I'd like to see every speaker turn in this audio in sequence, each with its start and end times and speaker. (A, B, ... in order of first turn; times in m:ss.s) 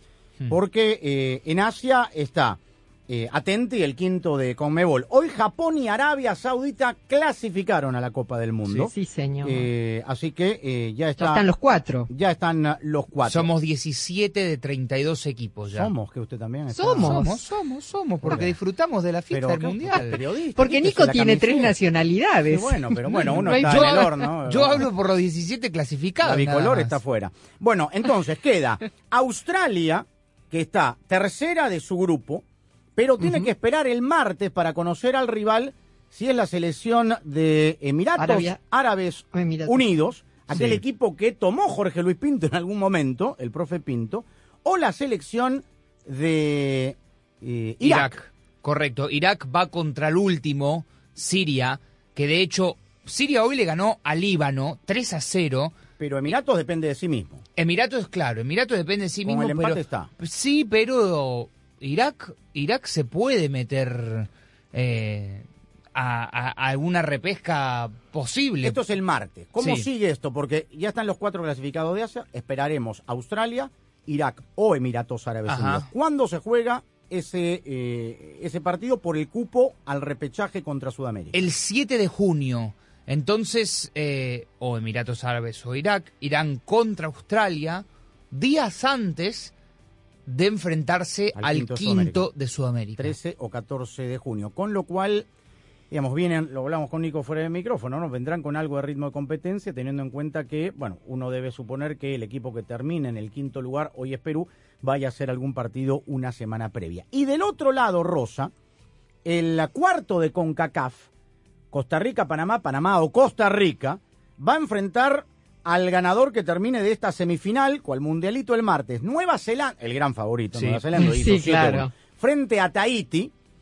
0:00.5-0:11.5 A
0:08.8-0:09.7 B
0:11.2-0:12.1 B
0:12.1-0:13.5 A
0:13.3-0:15.9 C
0:15.7-0:17.2 A
0:16.7-0:17.5 B
0:16.9-0:20.2 C
0:18.2-0:18.6 A
0:19.3-0:21.8 A
0:20.6-0:24.2 B
0:22.5-0:24.9 A
0:23.5-0:27.0 C
0:26.2-0:32.4 A
0:33.0-0:48.2 A
0:38.2-0:38.6 B
0:39.3-0:39.9 B
0:40.5-0:40.8 C
0:47.8-0:55.7 C
0:56.0-0:57.4 A
0:57.6-1:08.8 C
0:59.2-1:00.1 A
1:08.6-1:21.4 A
1:09.6-1:09.9 C
1:15.5-1:15.9 C
1:21.3-1:29.5 C
1:30.2-1:33.2 C
1:31.4-1:32.3 A
1:33.0-1:35.3 A
1:35.9-1:48.5 A
1:49.2-1:51.1 A
1:51.7-2:03.3 A
2:00.9-2:01.9 B